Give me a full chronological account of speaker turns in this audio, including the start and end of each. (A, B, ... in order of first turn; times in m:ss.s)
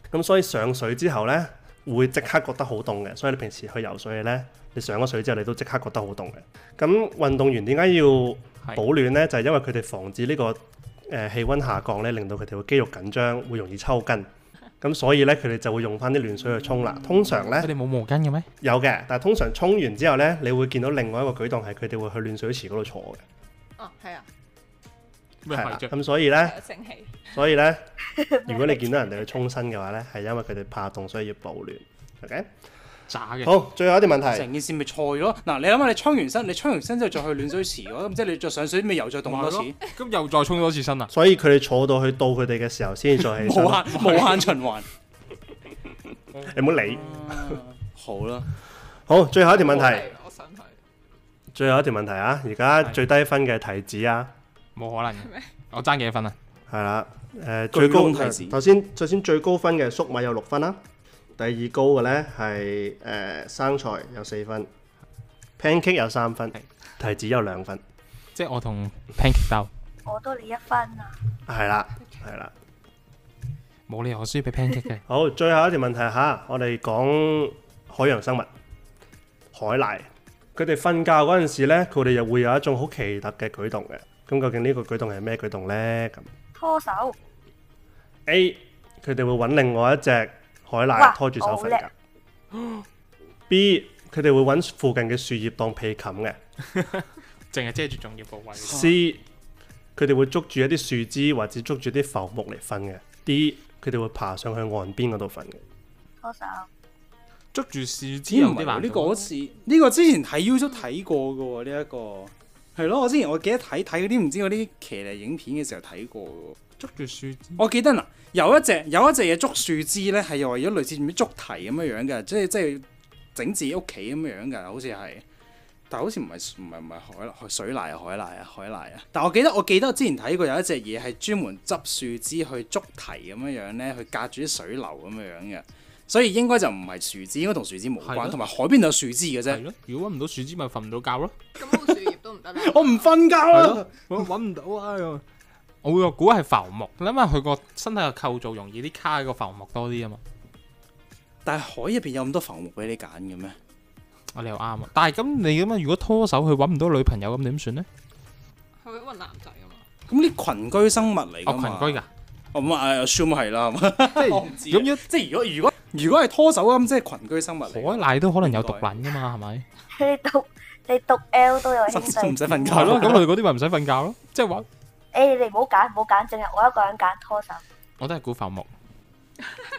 0:00.1-0:14.3 A
0:14.8-0:17.7 A
0:16.8-0:17.6 B
0:17.6-0:18.5 C
0:18.6-0:23.2 A
0:23.8-0:24.3 D
0:25.4-0:25.9 C
0:25.5-0:26.6 A
0:26.3-0:27.3 D
0:27.3-0:27.8 A
0:28.2-0:29.1 E
0:28.5-0:32.5 A
0:33.1-0:33.6 C
0:33.4-0:34.5 A
0:34.3-0:39.8 B
0:39.2-0:41.1 C
0:41.1-0:44.5 A
0:43.3-0:44.9 B
0:46.3-0:47.2 C
0:46.4-0:47.4 A
0:46.9-0:48.5 B
0:49.1-0:50.1 A
0:49.5-0:50.7 D
0:51.5-0:54.3 A
0:54.8-0:56.4 C
0:55.2-0:55.5 D
0:56.7-1:00.8 A
0:57.7-0:58.6 B
1:01.4-1:04.7 A
1:05.6-1:07.8 A
1:08.4-1:09.7 C
1:10.1-1:11.2 E
1:11.5-1:12.5 A
1:13.9-1:15.0 C
1:15.1-1:18.5 A
1:19.5-1:26.3 A
1:26.6-1:27.2 E
1:28.3-1:31.9 A
1:31.0-1:31.8 E
1:32.6-1:32.8 C
1:33.5-1:36.4 A
1:36.6-1:38.9 C
1:38.6-1:39.2 A
1:40.0-1:45.6 A
1:46.2-1:46.7 E
1:47.5-1:49.3 C
1:48.3-1:56.6 B
1:56.8-1:57.6 C
1:57.6-2:05.2 B
2:05.9-2:19.6 B
2:18.0-2:18.4 C
2:19.5-2:21.4 C
2:21.6-2:23.3 D
2:22.6-2:23.9 B
2:23.5-2:25.2 C
2:25.8-2:30.2 C
2:31.4-2:33.6 B
2:34.3-2:37.9 C
2:38.8-2:39.9 D
2:40.1-2:42.0 B
2:41.4-2:42.1 C
2:42.5-2:48.9 B
2:44.1-2:45.0 C
2:47.7-2:49.7 C
2:49.9-2:53.1 E
2:51.9-2:53.3 B
2:52.6-2:54.7 C
2:55.1-2:57.6 E
2:58.0-2:58.7 C
2:59.4-2:59.7 D